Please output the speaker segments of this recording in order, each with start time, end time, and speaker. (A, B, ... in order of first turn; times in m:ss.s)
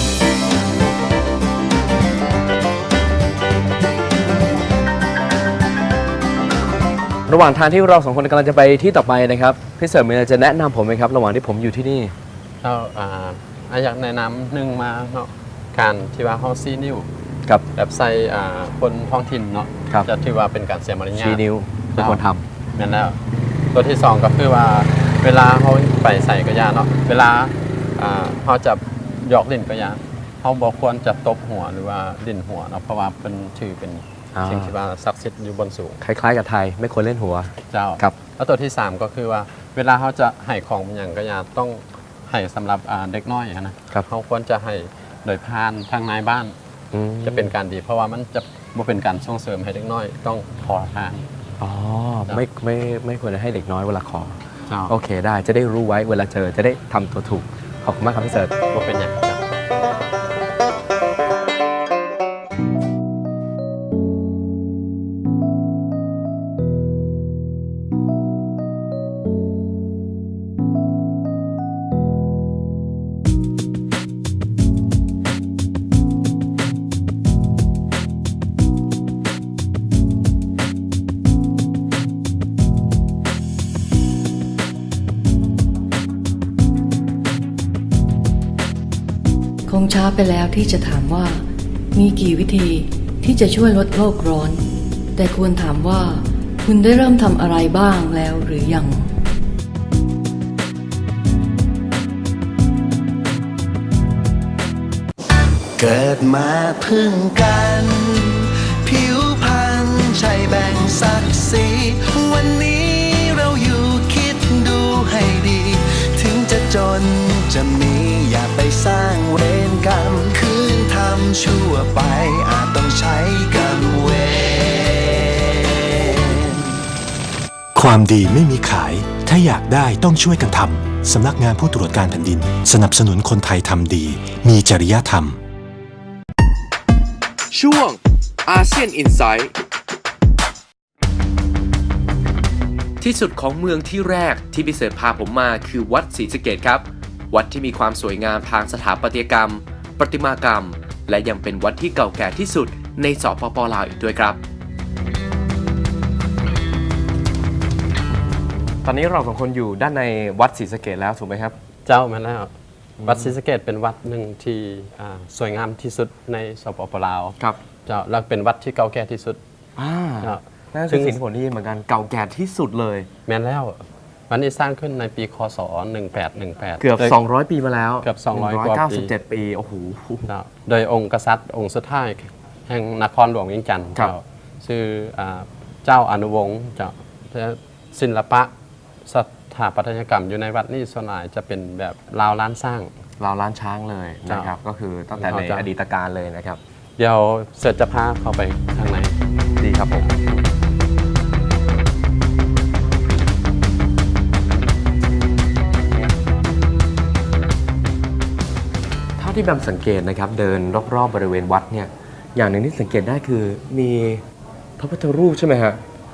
0:07.3-0:12.2 A
0:12.6-0:17.1 B
0:17.8-0:21.4 B
0:21.2-0:22.4 A
0:22.0-0:22.2 B
0:22.8-0:23.2 B
0:23.7-0:36.0 B
0:34.4-0:34.7 A
0:36.0-0:38.2 A
0:37.7-0:46.6 B
0:46.9-0:47.5 A
0:47.2-0:51.3 B
0:51.6-0:58.5 A
0:58.7-0:59.4 B
1:29.7-1:39.2 C
1:45.8-2:06.6 D
2:07.8-2:15.4 E
2:17.5-2:19.5 F
2:23.0-2:34.4 F
2:38.1-2:41.6 A
2:41.9-2:42.5 B
2:43.0-2:43.3 A
2:43.0-2:49.4 B
2:49.8-2:53.1 A
2:50.2-2:51.2 B
2:53.3-2:57.2 B
2:56.8-3:00.3 A
2:58.0-2:59.1 B
3:00.3-3:08.5 B
3:09.0-3:12.9 B
3:13.2-3:16.6 A
3:15.2-3:15.7 B
3:17.0-3:19.2 B
3:19.6-3:20.1 A
3:29.2-3:34.2 A
3:34.8-3:35.8 A